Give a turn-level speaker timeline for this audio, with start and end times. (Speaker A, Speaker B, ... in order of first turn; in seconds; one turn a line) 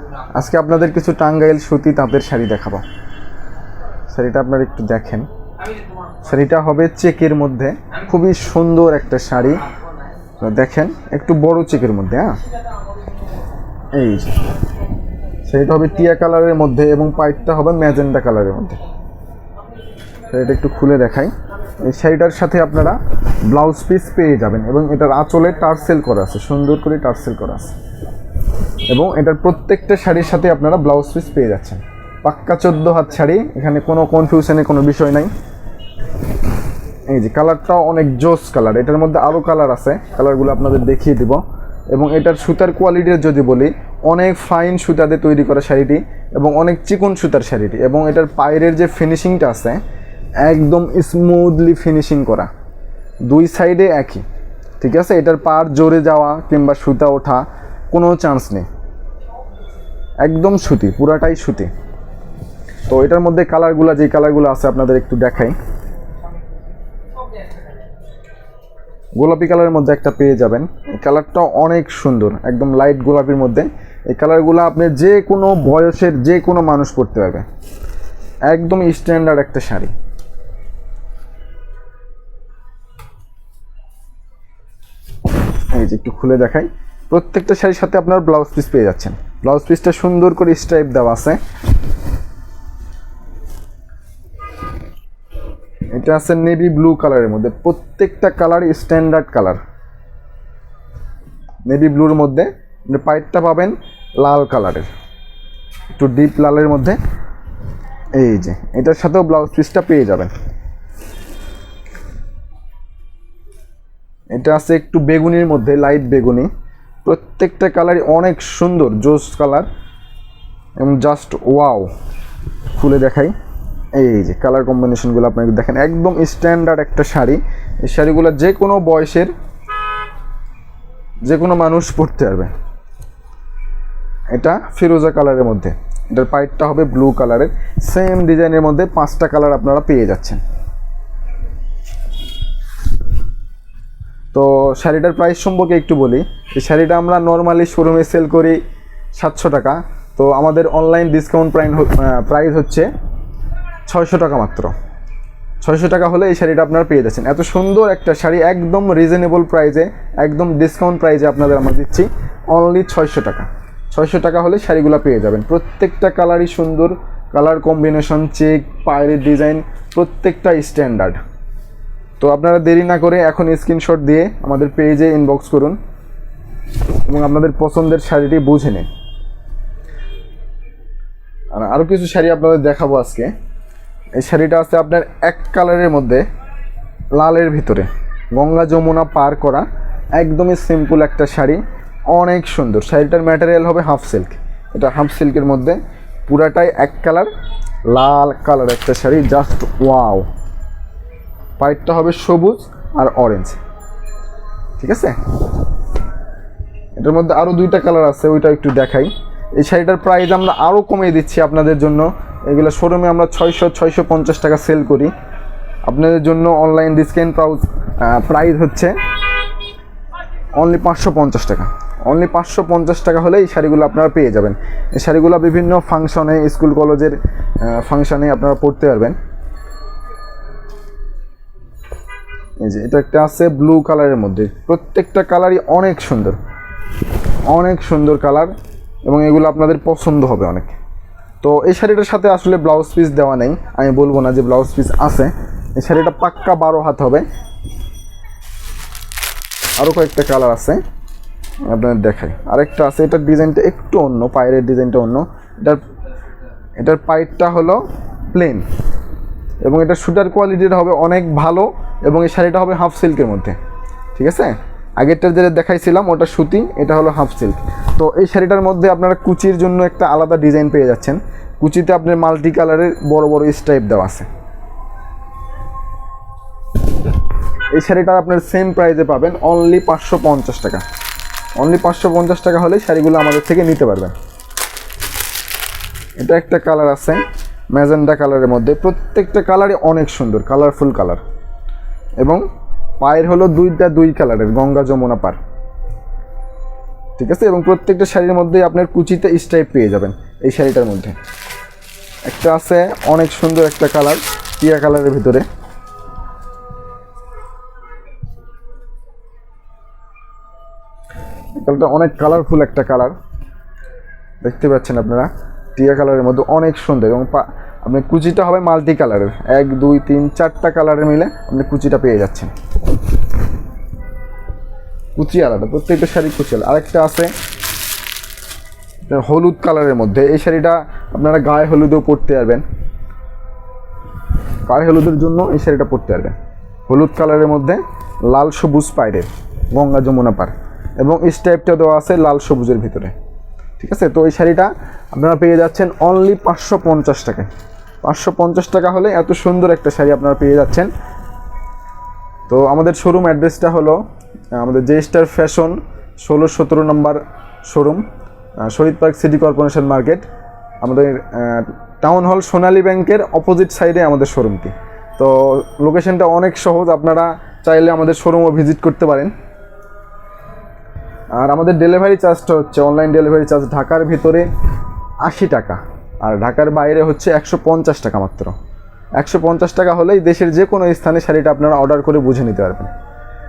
Speaker A: 0.3-2.8
Speaker A: 4.1-5.3
Speaker A: 6.2-9.6
Speaker A: 10.4-12.4
Speaker A: 13.9-14.4
Speaker A: 15.4-18.8
Speaker A: 20.3-27.7
Speaker A: 28.9-35.3
Speaker A: 37.1-49.8
Speaker A: 50.4-52.5
Speaker A: 53.3-54.2
Speaker A: 54.8-58.6
Speaker A: 60.2-61.7
Speaker A: 62.9-65.5
Speaker A: 69.2-77.4
Speaker A: 78.5-79.9
Speaker A: 85.7-91.4
Speaker A: 95.9-99.6
Speaker A: 101.7-104.9
Speaker A: 105.9-107.0
Speaker A: 108.2-110.3
Speaker A: 114.3-116.5
Speaker A: 117.0-119.7
Speaker A: 120.8-121.9
Speaker A: 122.8-123.3
Speaker A: 124.0-129.3
Speaker A: 131.2-132.5
Speaker A: 134.3-140.4
Speaker A: 144.3-148.6
Speaker A: 149.2-152.9
Speaker A: 153.9-154.7
Speaker A: 155.6-171.2
Speaker A: 172.2-175.8
Speaker A: 177.1-178.9
Speaker A: 181.5-183.3
Speaker A: 184.2-186.2
Speaker A: 187.2-197.3
Speaker A: 197.9-200.2
Speaker A: 201.6-203.6
Speaker A: 204.8-205.1
Speaker A: 207.0-215.1
Speaker A: 215.9-218.9
Speaker A: 220.6-229.2
Speaker A: 232.6-236.4
Speaker A: 237.5-238.5
Speaker A: 239.1-240.8
Speaker A: 241.4-247.2
Speaker A: 249.8-250.8
Speaker A: 251.7-255.8
Speaker A: 256.8-258.6
Speaker A: 259.6-263.6
Speaker A: 264.1-274.3
Speaker A: 277.7-280.8
Speaker A: 281.6-284.1
Speaker A: 286.2-291.2
Speaker A: 293.0-295.4
Speaker A: 297.2-301.1
Speaker A: 302.2-305.4
Speaker A: 311.6-313.1
Speaker A: 314.4-322.5
Speaker A: 325.1-327.3
Speaker A: 329.1-332.6
Speaker A: 334.6-336.3
Speaker A: 336.9-343.1
Speaker A: 343.8-347.5
Speaker A: 348.0-350.9
Speaker A: 352.5-354.0
Speaker A: 354.5-358.0
Speaker A: 358.6-360.3
Speaker A: 360.8-369.3
Speaker A: 371.4-374.4
Speaker A: 375.2-378.5
Speaker A: 379.2-382.9